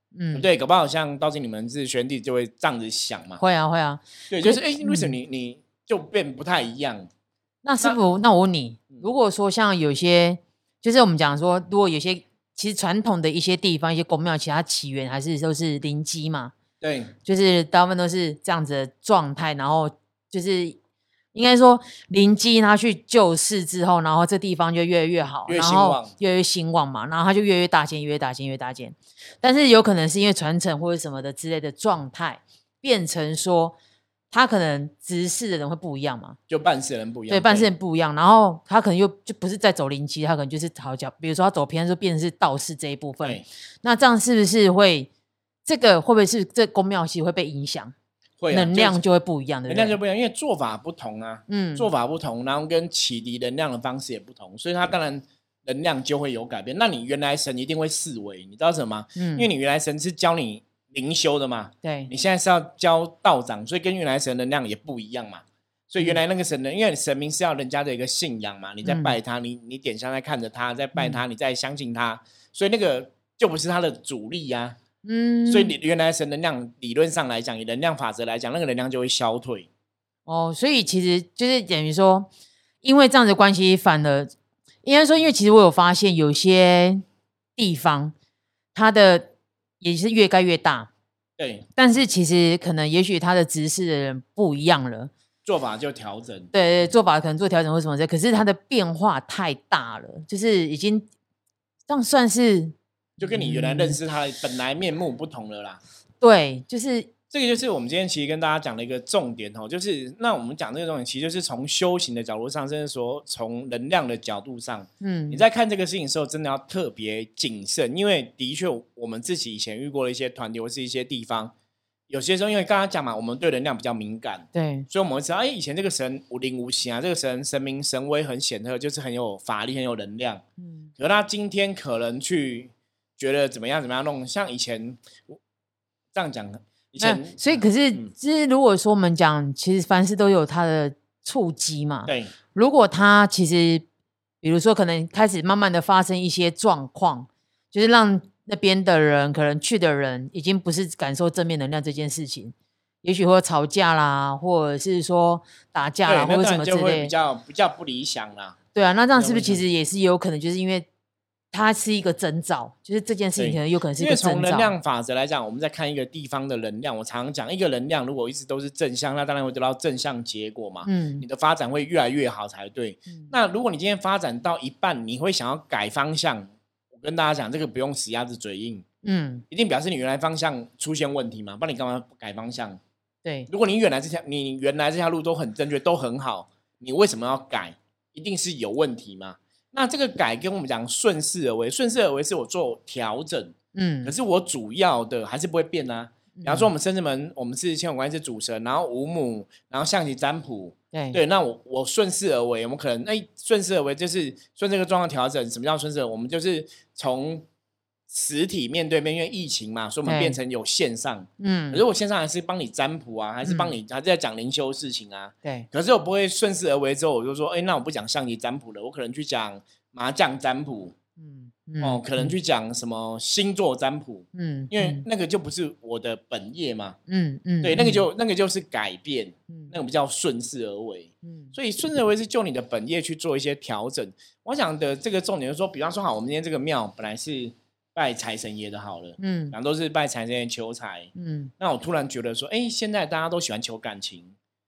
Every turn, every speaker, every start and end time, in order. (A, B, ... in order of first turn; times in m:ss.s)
0:00.1-0:00.5 A
0:00.3-0:03.4 B
0:03.4-0:05.2 A
0:04.3-0:07.1 B
0:07.6-0:16.5 A
0:16.8-0:17.1 B
0:17.2-0:20.8 A
0:21.3-0:33.8 A
0:25.5-0:26.1 B
0:34.3-0:36.4 A
0:36.5-0:37.7 B
0:37.3-0:45.1 A
0:45.6-0:48.0 A
0:48.4-0:49.0 B
0:48.5-0:49.9 A
0:49.7-1:14.8 B
0:51.5-0:51.9 A
0:59.2-0:59.5 A
1:01.8-1:02.1 A
1:08.8-1:09.2 A
1:11.0-1:11.2 A
1:15.0-1:15.8 A
1:15.5-1:19.7 B
1:20.3-1:22.3 A
1:22.8-1:24.3 A
1:24.8-1:27.0 A
1:27.6-1:28.1 A
1:28.7-1:30.9 A
1:31.4-1:31.7 B
1:31.8-1:35.1 A
1:35.4-1:36.5 B
1:36.5-1:41.1 A
1:41.9-1:44.0 A
1:43.2-1:45.8 B
1:46.2-1:47.1 A
1:47.3-2:01.5 B
1:55.0-1:55.4 A
2:02.1-2:10.4 B
2:04.5-2:04.9 A
2:10.6-2:10.9 A
2:11.0-2:15.4 B
2:16.1-2:18.1 B
2:17.0-2:23.8 A
2:22.1-2:22.3 B
2:24.4-2:37.1 A
2:36.1-2:38.6 B
2:38.8-2:40.9 A
2:39.2-2:39.6 B
2:41.5-2:44.7 A
2:43.4-2:58.8 B
2:50.8-2:51.2 A
2:59.0-2:59.4 A
2:59.5-3:02.8 B
3:03.5-3:27.5 B
3:13.7-3:14.1 A
3:16.4-3:16.7 A
3:20.9-3:21.2 A
3:28.1-3:41.0 B
3:30.1-3:30.4 A
3:31.4-3:31.8 A
3:33.4-3:33.8 A
3:41.2-3:42.3 A
3:41.8-3:47.0 B
3:44.3-3:45.0 A
3:47.1-3:48.0 A
3:47.6-4:04.3 B
3:51.2-3:51.5 A
3:59.2-3:59.6 A
4:01.2-4:01.5 A